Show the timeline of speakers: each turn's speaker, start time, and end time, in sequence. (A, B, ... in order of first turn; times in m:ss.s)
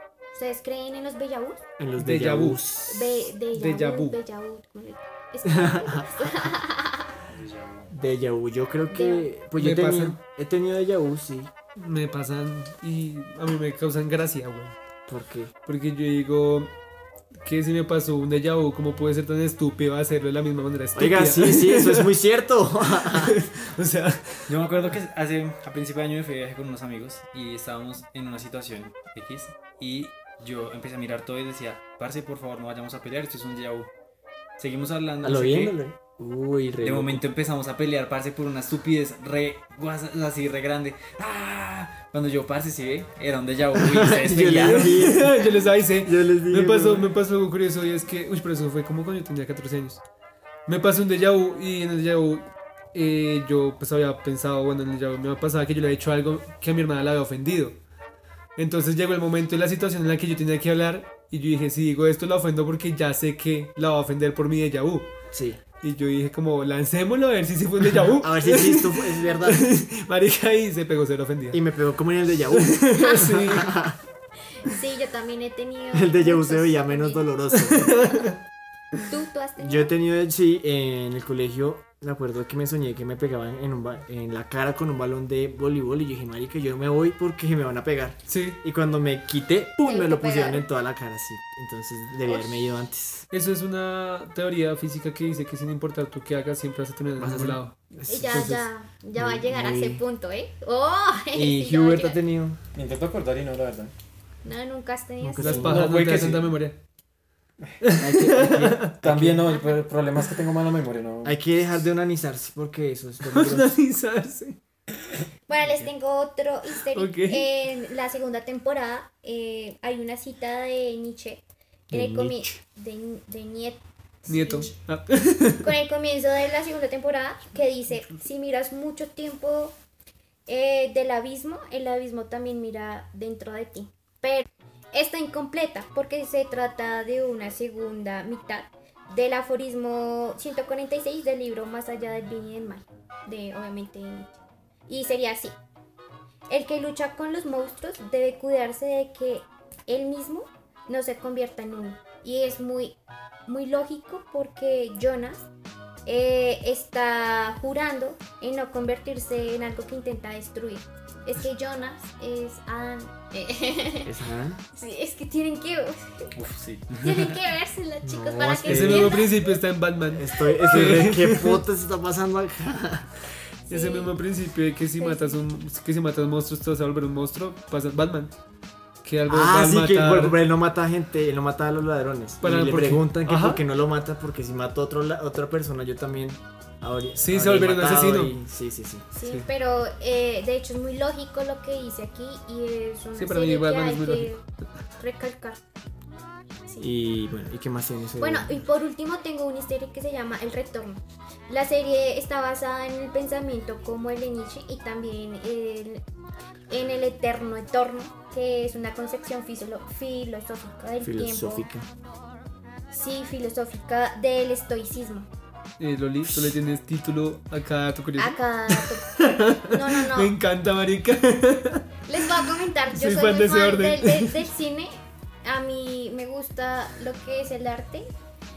0:00.3-0:01.6 A
0:01.8-0:02.9 B
0:02.0-0:04.2 C
0:02.9-0:07.2 A
0:05.5-0:06.5 B
0:07.3-0:07.9 D
0:07.9-0:11.5 B
0:08.9-0:09.3 A
0:09.6-0:10.2 C
0:11.8-0:14.8 C
0:15.1-0:15.5 B
0:15.7-0:16.7 C
0:17.4-0:22.1 C
0:21.0-0:23.4 B
0:23.0-0:24.5 C
0:24.5-0:33.9 D
0:34.6-0:35.8 D
0:35.2-0:37.2 B
0:36.8-0:45.2 D
0:43.8-0:45.5 B
0:44.7-0:50.0 C
0:46.0-0:47.1 B
0:50.7-0:57.8 C
0:58.6-1:05.1 C
1:05.3-1:05.6 B
1:05.8-1:11.6 C
1:08.0-1:09.7 B
1:11.5-1:14.0 B
1:12.6-1:13.8 C
1:13.0-1:13.4 A
1:14.5-1:17.3 A
1:15.9-1:18.0 B
1:17.6-1:18.4 C
1:19.1-1:19.9 A
1:19.6-1:33.3 B
1:28.3-1:28.6 C
1:29.8-1:30.6 A
1:32.2-1:32.7 A
1:33.3-1:37.8 C
1:37.2-1:40.0 B
1:38.1-1:42.2 A
1:38.3-1:38.6 C
1:41.3-1:42.6 B
1:42.7-1:43.9 E
1:44.4-1:45.8 A
1:45.2-1:46.0 B
1:45.4-1:46.8 C
1:45.6-1:46.5 E
1:47.8-1:49.0 C
1:48.0-1:49.4 B
1:49.0-1:51.4 E
1:51.2-1:53.7 B
1:53.3-1:54.6 C
1:55.5-2:04.8 A
1:55.6-1:55.9 D
1:56.9-1:57.5 C
2:01.9-2:02.6 B
2:04.3-2:05.7 C
2:05.6-2:09.7 A
2:10.5-2:24.3 A
2:24.9-2:25.6 A
2:26.5-2:35.5 A
2:36.1-2:44.2 A
2:44.0-2:44.6 B
2:44.7-2:46.3 A
2:46.4-2:47.4 D
2:47.0-2:49.6 A
2:48.0-2:49.2 B
2:48.6-2:51.6 C
2:50.1-2:53.1 B
2:53.7-2:54.1 A
2:53.7-2:58.4 C
2:55.0-2:55.4 A
2:59.0-3:00.4 C
2:59.3-3:09.1 B
3:02.4-3:03.6 C
3:07.2-3:08.4 C
3:09.1-3:14.4 A
3:13.2-3:14.3 C
3:15.0-3:15.6 A
3:16.8-3:18.6 B
3:18.2-3:26.0 A
3:26.7-3:31.7 A
3:31.0-3:31.9 B
3:32.9-3:35.3 A
3:35.8-3:44.4 C
3:38.2-3:40.4 A
3:42.1-3:44.9 A
3:45.4-3:48.1 A